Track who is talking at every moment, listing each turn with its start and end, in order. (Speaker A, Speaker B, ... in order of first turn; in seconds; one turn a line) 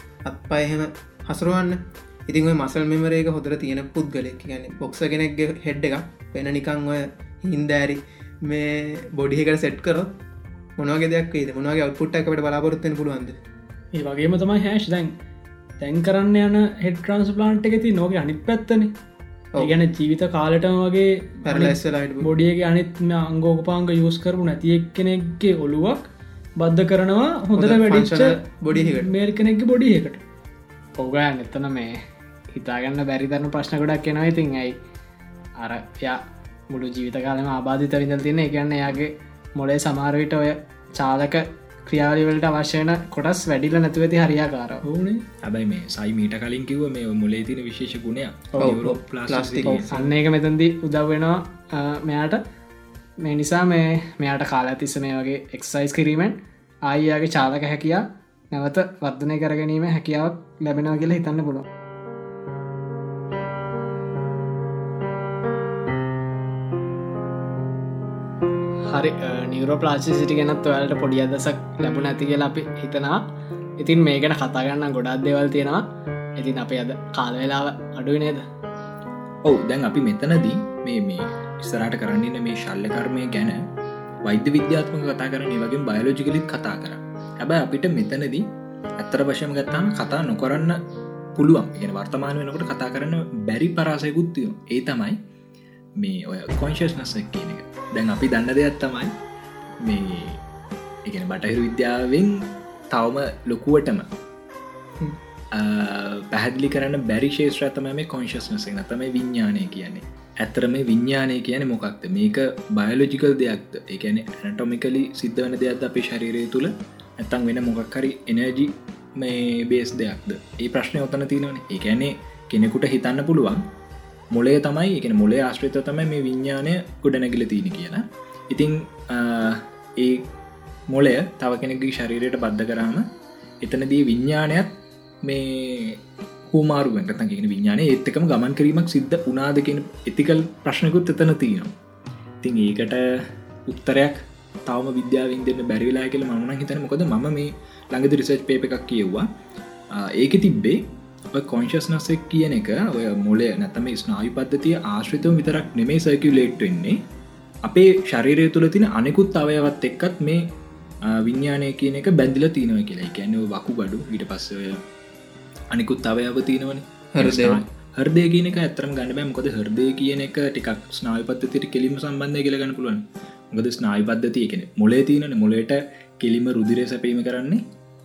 Speaker A: 0.2-10.1
Speaker A: 10.8-13.4
Speaker B: 13.9-15.1
Speaker B: 15.8-18.9
Speaker B: 19.6-30.2
Speaker A: 21.5-22.3
Speaker A: 27.6-29.1
Speaker C: 31.0-34.8
Speaker C: 35.6-44.8
Speaker B: 44.8-45.2
Speaker D: 45.4-50.1
Speaker A: 48.6-49.9
Speaker C: 49.7-52.4
Speaker C: 53.2-61.6
Speaker C: 68.9-73.2
Speaker C: 73.8-75.8
Speaker C: 76.4-78.5
Speaker D: 79.5-83.6
Speaker D: 84.2-88.5
Speaker D: 89.0-90.8
Speaker D: 91.3-95.2
Speaker D: 96.0-99.1
Speaker D: 99.8-100.4
Speaker D: 101.0-104.1
Speaker D: 105.5-123.6
Speaker D: 124.3-130.2
Speaker D: 130.9-133.1
Speaker D: 133.6-134.7
Speaker D: 135.2-141.7
Speaker D: 142.4-149.3
Speaker D: 149.9-157.0
Speaker D: 157.7-160.4
Speaker D: 161.1-164.8
Speaker D: 165.7-177.6
Speaker A: 167.1-167.6